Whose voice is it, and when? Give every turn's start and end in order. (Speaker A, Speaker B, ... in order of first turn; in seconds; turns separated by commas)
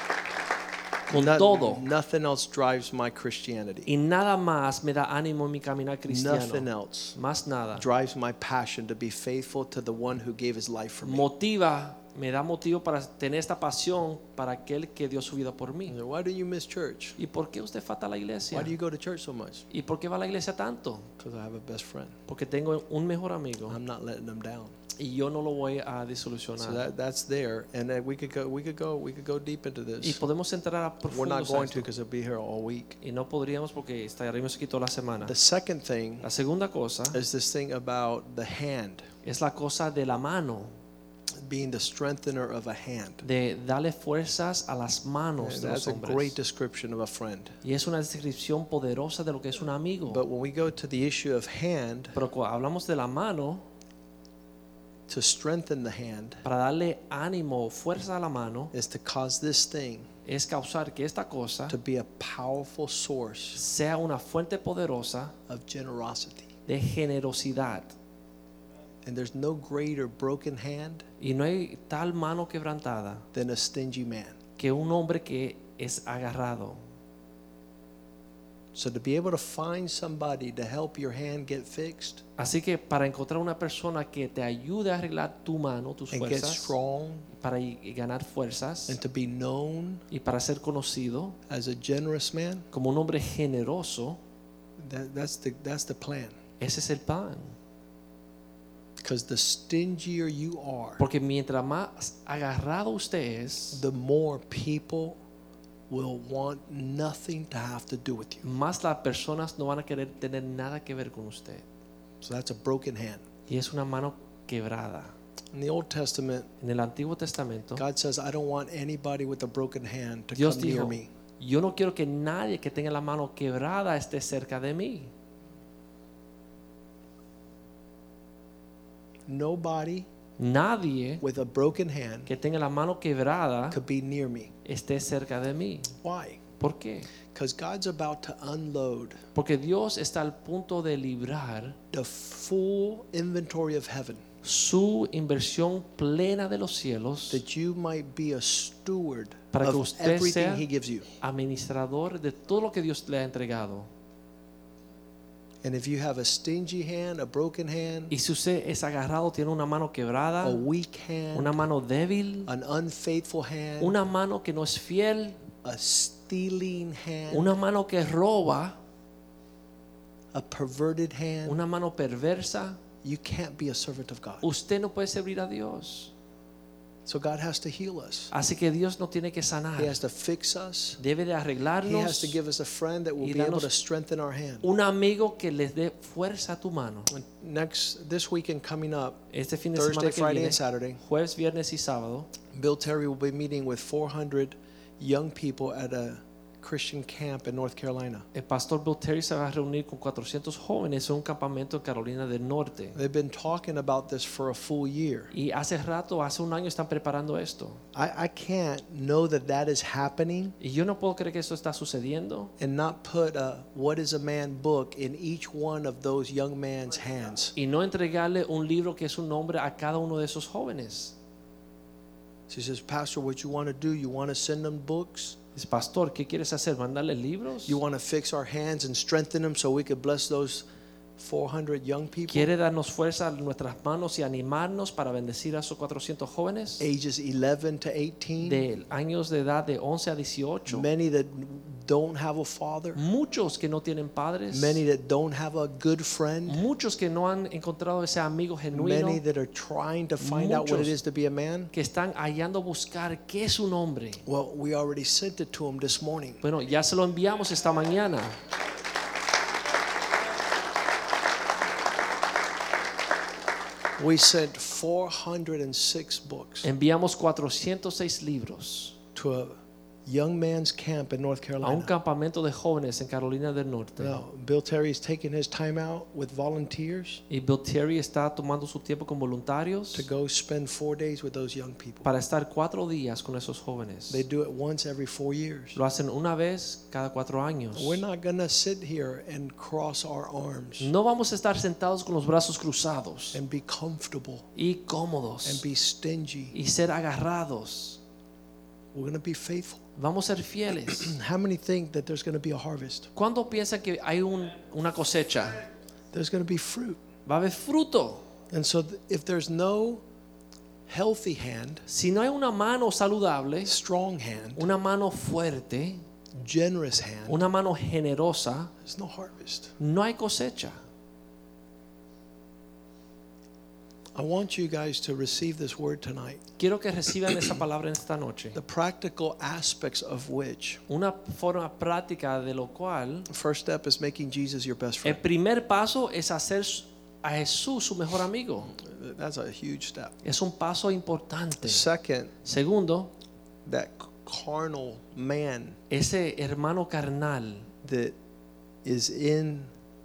Speaker A: 1.1-1.9, Speaker B: 1.1-3.9, Speaker A: 3.9-7.8, Speaker B: 6.1-7.2, Speaker B: 7.8-11.3, Speaker A: 11.0-16.0, Speaker B: 15.9-17.2, Speaker A: 17.2-18.7, Speaker B: 18.5-19.6, Speaker A: 19.7-21.1, Speaker B: 21.2-22.1, Speaker A: 22.3-23.8, Speaker B: 23.7-24.7, Speaker A: 25.0-26.9, Speaker B: 26.6-30.2, Speaker A: 30.0-31.9, Speaker B: 31.1-33.0, Speaker A: 33.0-35.3, Speaker B: 35.2-36.3, Speaker A: 36.2-37.2, Speaker B: 37.1-39.1, Speaker A: 39.2-40.7, Speaker B: 41.4-43.2, Speaker A: 43.2-46.4, Speaker B: 45.4-47.6, Speaker A: 47.6-50.2, Speaker B: 50.1-52.1, Speaker A: 52.1-53.6, Speaker B: 55.1-56.4, Speaker A: 56.4-58.7, Speaker B: 58.7-60.1, Speaker A: 60.3-61.8, Speaker B: 61.7-63.6, Speaker A: 63.5-65.3, Speaker B: 65.5-66.5, Speaker A: 66.7-68.0, Speaker B: 69.0-71.0, Speaker A: 71.2-73.3, Speaker B: 73.3-74.3, Speaker A: 74.6-76.8, Speaker B: 78.7-82.2, Speaker A: 82.4-86.8, Speaker B: 86.1-87.3, Speaker A: 87.3-89.0, Speaker B: 88.9-90.0, Speaker A: 90.1-91.4, Speaker B: 91.5-92.7, Speaker A: 92.7-94.2, Speaker B: 94.8-96.4, Speaker A: 96.6-97.5, Speaker B: 99.0-101.0, Speaker A: 101.0-103.8, Speaker B: 103.7-105.2, Speaker B: 105.9-108.5, Speaker A: 108.4-111.6, Speaker B: 112.2-113.2, Speaker A: 113.5-115.1, Speaker B: 115.5-116.5, Speaker A: 116.6-117.8, Speaker B: 117.8-121.1, Speaker A: 120.3-125.1, Speaker B: 129.3-130.1, Speaker A: 130.4-131.2, Speaker B: 131.2-132.3, Speaker A: 132.3-133.8, Speaker B: 133.7-134.5, Speaker A: 134.7-135.9, Speaker B: 136.0-136.4, Speaker A: 136.6-137.1, Speaker B: 137.3-139.2, Speaker A: 139.3-141.8, Speaker B: 141.9-144.2, Speaker A: 144.4-147.4, Speaker B: 147.3-151.1, Speaker A: 149.5-150.7, Speaker A: 151.2-153.9, Speaker B: 155.6-158.1, Speaker A: 158.1-160.6, Speaker B: 160.4-161.6, Speaker A: 161.3-162.5, Speaker B: 162.5-163.9, Speaker A: 163.8-165.4, Speaker B: 165.6-167.5, Speaker A: 167.3-168.8, Speaker B: 170.3-171.6, Speaker A: 171.4-172.8, Speaker B: 173.0-174.4, Speaker A: 174.4-176.1, Speaker B: 177.1-178.3, Speaker A: 178.3-180.0, Speaker B: 179.8-181.0, Speaker A: 181.0-182.4, Speaker B: 181.8-184.7, Speaker A: 183.2-183.7, Speaker A: 184.6-187.1, Speaker B: 187.1-189.2, Speaker A: 189.3-192.3, Speaker B: 189.8-191.0, Speaker B: 192.5-198.2, Speaker A: 198.3-203.0, Speaker B: 202.9-205.3, Speaker A: 205.3-207.8, Speaker B: 207.9-210.6, Speaker A: 210.6-212.5, Speaker B: 212.6-217.5, Speaker A: 217.6-221.1, Speaker B: 222.5-225.4, Speaker A: 225.6-227.8, Speaker B: 227.7-230.7, Speaker B: 231.2-232.5, Speaker A: 232.3-236.8, Speaker B: 236.8-238.7, Speaker A: 238.4-240.9, Speaker B: 240.7-243.0, Speaker A: 242.9-244.8, Speaker B: 244.5-246.7, Speaker A: 246.5-249.2, Speaker B: 248.7-251.7, Speaker A: 250.2-251.0, Speaker A: 251.7-254.2, Speaker B: 254.3-256.4, Speaker A: 256.4-258.4, Speaker B: 264.0-266.7, Speaker A: 266.6-269.0, Speaker B: 269.1-271.9, Speaker A: 271.6-274.2, Speaker B: 274.0-277.2, Speaker A: 277.3-280.1, Speaker B: 279.9-282.1, Speaker A: 282.0-284.2, Speaker B: 284.1-285.8, Speaker A: 285.8-288.0, Speaker B: 287.8-290.9, Speaker A: 290.8-293.4, Speaker B: 293.3-294.5, Speaker A: 294.6-295.7, Speaker B: 295.4-296.6, Speaker A: 296.5-298.0, Speaker B: 298.9-299.8, Speaker A: 300.0-301.1, Speaker B: 300.9-303.1, Speaker A: 303.1-305.6, Speaker B: 306.1-307.0, Speaker A: 307.3-308.3, Speaker B: 308.5-310.0, Speaker B: 310.9-311.8, Speaker A: 311.9-313.8, Speaker B: 313.6-314.7, Speaker A: 314.6-316.0, Speaker B: 316.4-317.5, Speaker A: 317.3-318.7, Speaker B: 318.8-319.8, Speaker A: 319.8-320.8, Speaker B: 324.1-326.4, Speaker A: 326.6-328.6, Speaker B: 328.6-330.8, Speaker A: 330.9-333.3, Speaker B: 333.3-335.2, Speaker A: 335.0-338.7, Speaker B: 338.8-340.1, Speaker A: 340.2-341.9, Speaker B: 341.6-342.3, Speaker A: 342.4-343.1, Speaker B: 343.6-345.8, Speaker A: 345.9-347.7, Speaker B: 347.8-348.2, Speaker B: 348.8-349.7